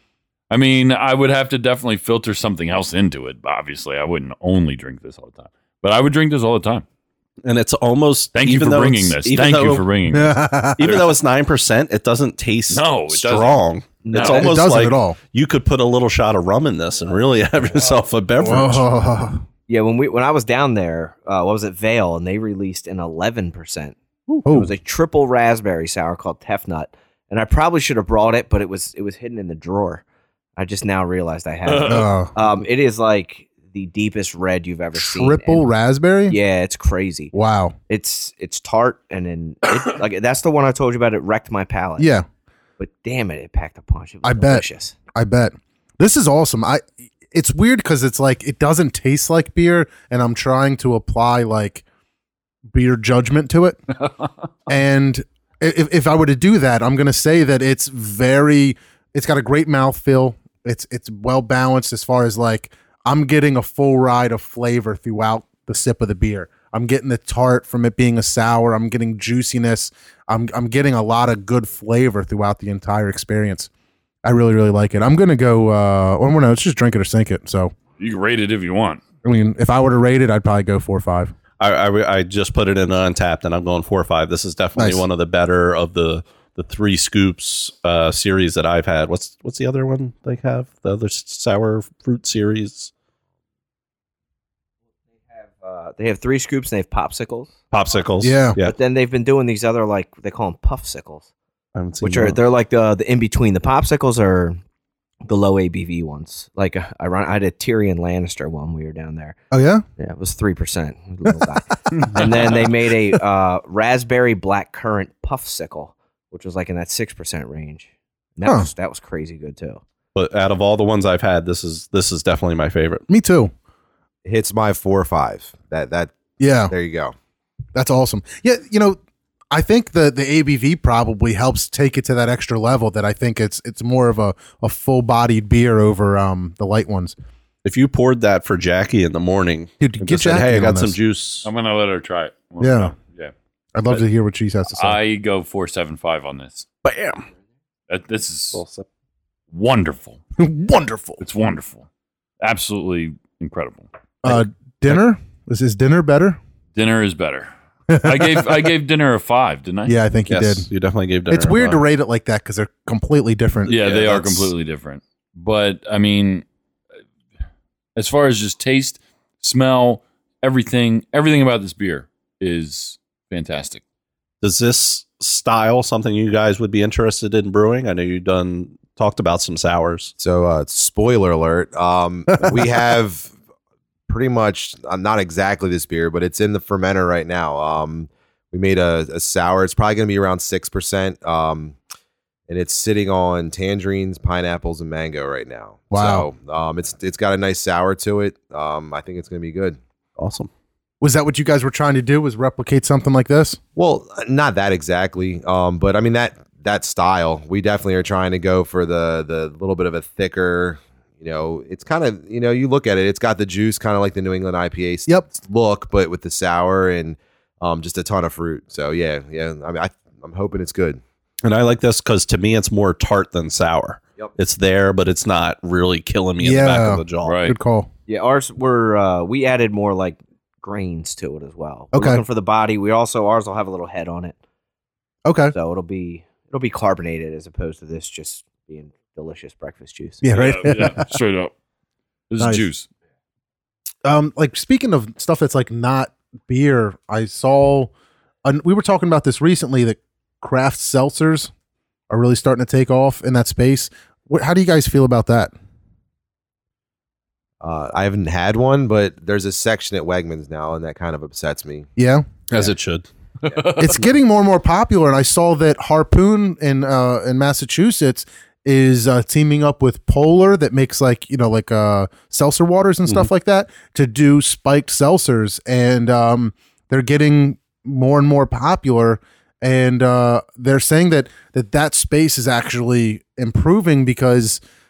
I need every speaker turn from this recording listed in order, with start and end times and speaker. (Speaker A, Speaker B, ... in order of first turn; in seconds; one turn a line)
Speaker A: 0.5-6.8
Speaker B: 7.4-9.9
Speaker A: 8.3-11.1
Speaker C: 10.1-10.9
Speaker B: 10.8-18.9
Speaker A: 12.7-14.5
Speaker D: 14.1-14.6
Speaker C: 14.2-15.2
Speaker C: 18.4-19.4
Speaker D: 19.7-23.9
Speaker C: 24.4-24.7
Speaker D: 24.5-30.0
Speaker D: 30.6-35.6
Speaker A: 31.7-32.0
Speaker C: 31.9-32.3
Speaker C: 34.9-36.4
Speaker D: 36.3-37.3
Speaker C: 37.3-37.7
Speaker D: 37.9-42.1
Speaker C: 42.0-42.3
Speaker D: 42.8-45.0
Speaker C: 44.2-51.8
Speaker C: 52.7-53.8
Speaker C: 54.7-73.7
Speaker C: 74.2-77.7
Speaker A: 78.0-79.0
Speaker C: 79.2-81.3
Speaker B: 81.6-92.9
Speaker C: 84.8-85.0
Speaker D: 95.5-97.5
Speaker B: 97.7-98.7
Speaker C: 98.2-98.6
Speaker D: 98.6-101.3
Speaker B: 101.7-102.4
Speaker D: 102.0-104.6
Speaker D: 105.2-109.4
Speaker C: 109.5-109.8
Speaker D: 110.0-119.8
Speaker C: 118.4-118.7
Speaker B: 120.1-123.0
Speaker C: 123.1-123.5
Speaker E: 124.2-126.2
Speaker C: 126.4-126.7
Speaker E: 126.7-127.1
Speaker C: 127.7-129.0
Speaker C: 129.5-137.1
Speaker B: 137.6-141.5
Speaker C: 139.8-140.9
Speaker A: 141.4-143.3
Speaker C: 142.6-142.9
Speaker C: 143.7-145.0
Speaker A: 144.7-146.7
Speaker B: 146.8-147.2
Speaker A: 147.9-148.6
Speaker B: 148.5-148.9
Speaker A: 149.5-150.2
Speaker C: 150.4-151.2
Speaker A: 151.2-151.9
Speaker A: 152.4-154.4
Speaker C: 154.2-156.4
Speaker A: 156.7-160.0
Speaker C: 157.9-158.6
Speaker C: 159.9-160.7
Speaker B: 160.3-161.8
Speaker C: 161.3-164.5
Speaker A: 163.7-166.4
Speaker A: 167.9-173.8
Speaker B: 174.4-180.1
Speaker E: 180.2-183.3
Speaker C: 182.3-182.9
Speaker E: 184.1-191.8
Speaker E: 192.5-199.8
Speaker C: 195.9-196.3
Speaker B: 200.2-200.5
Speaker C: 201.0-203.6
Speaker E: 203.8-221.0
Speaker B: 221.4-227.4
Speaker C: 226.4-227.9
Speaker A: 227.2-227.6
Speaker D: 228.1-234.3
Speaker C: 231.9-232.2
Speaker C: 235.3-235.5
Speaker D: 235.5-240.7
Speaker C: 240.2-241.1
Speaker A: 240.3-241.5
Speaker A: 242.3-242.9
Speaker C: 242.4-242.6
Speaker C: 244.0-247.9
Speaker C: 248.4-251.5
Speaker C: 252.1-255.5
Speaker E: 257.6-261.9
Speaker C: 262.0-262.4
Speaker B: 262.5-263.1
Speaker A: 263.4-264.0
Speaker C: 263.8-284.6